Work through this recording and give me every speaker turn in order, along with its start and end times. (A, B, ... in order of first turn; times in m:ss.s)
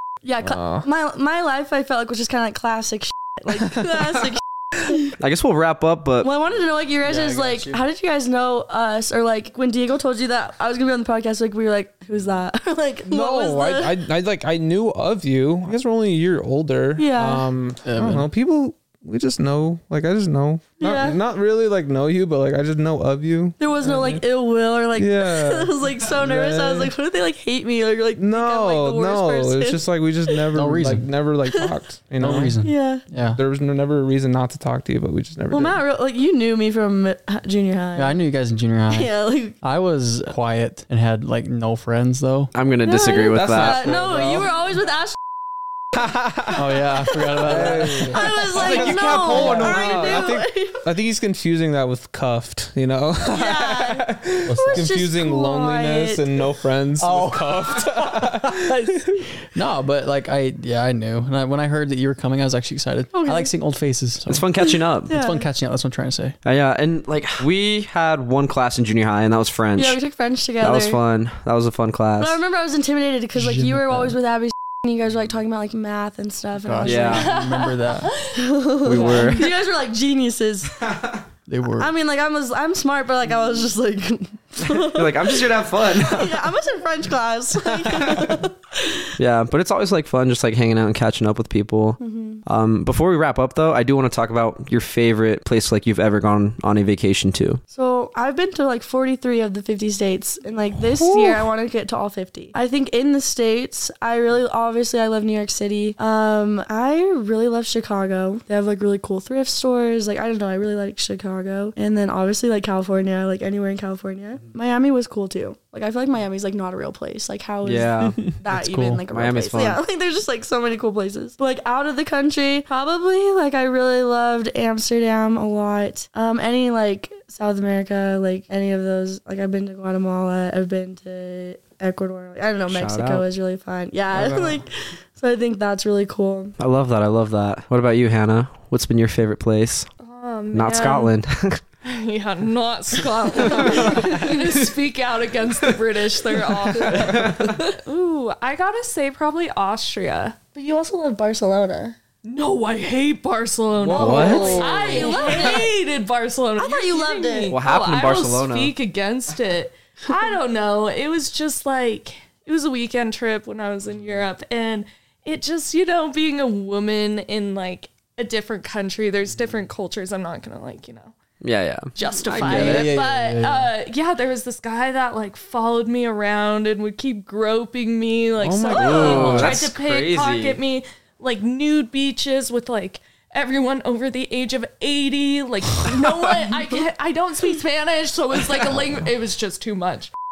0:00.2-0:05.2 A
0:00.4-0:00.9 B
0:03.6-0:03.9 B
0:05.2-0:06.3 C
0:06.2-0:14.0 A
0:07.0-0:07.8 D
0:13.0-0:24.1 B
0:17.0-0:17.5 A
0:17.8-0:18.3 D
0:20.8-0:21.2 A
0:23.6-0:30.4 A
0:23.9-0:24.2 D
0:25.0-0:26.9 B
0:28.2-0:32.6 B
0:30.5-0:31.1 D
0:31.5-0:31.7 A
0:32.2-0:33.4 D
0:32.6-0:33.0 A
0:33.4-0:35.8 B
0:35.5-0:38.2 A
0:38.0-0:42.5 D
0:38.9-0:39.6 A
0:42.5-0:43.9 C
0:42.8-0:45.2 A
0:43.3-0:44.6 B
0:46.0-0:46.6 B
0:46.5-0:48.4 D
0:47.1-0:47.4 A
0:47.4-0:59.3 B
0:48.0-0:50.8 A
0:48.4-0:50.2 C
0:53.3-0:56.5 A
0:54.5-0:54.9 D
0:57.0-1:04.4 D
1:03.1-1:03.5 A
1:04.3-1:05.1 C
1:04.6-1:05.5 A
1:05.1-1:06.4 D
1:06.4-1:10.0 C
1:09.8-1:11.0 A
1:10.6-1:12.4 C
1:12.2-1:17.3 A
1:13.4-1:14.1 D
1:16.6-1:18.1 D
1:16.8-1:17.3 C
1:17.1-1:19.4 E
1:18.3-1:20.9 A
1:18.8-1:19.6 C
1:21.5-1:21.9 D
1:21.8-1:29.1 A
1:24.6-1:26.4 C
1:27.7-1:28.4 B
1:29.2-1:37.6 C
1:32.0-1:32.4 A
1:37.7-2:16.6 A
1:40.9-1:41.4 B
1:57.6-1:58.2 C
1:58.5-1:59.0 D
1:59.1-1:59.8 C
2:12.7-2:13.2 C
2:14.1-2:14.6 B
2:16.6-2:19.9 C
2:20.0-2:21.1 E
2:20.5-2:21.6 C
2:21.8-2:30.4 E
2:23.4-2:24.6 C
2:23.6-2:24.2 A
2:26.8-2:27.6 C
2:26.9-2:27.4 B
2:30.5-2:32.0 A
2:32.2-2:51.1 E
2:33.8-2:35.5 B
2:33.9-2:34.6 C
2:34.0-2:35.8 A
2:36.6-2:37.6 A
2:37.5-2:38.7 C
2:51.4-2:53.0 C
2:52.0-3:10.1 E
2:52.4-2:53.7 D
2:58.4-2:59.5 B
2:58.7-3:00.6 C
2:59.1-2:59.5 D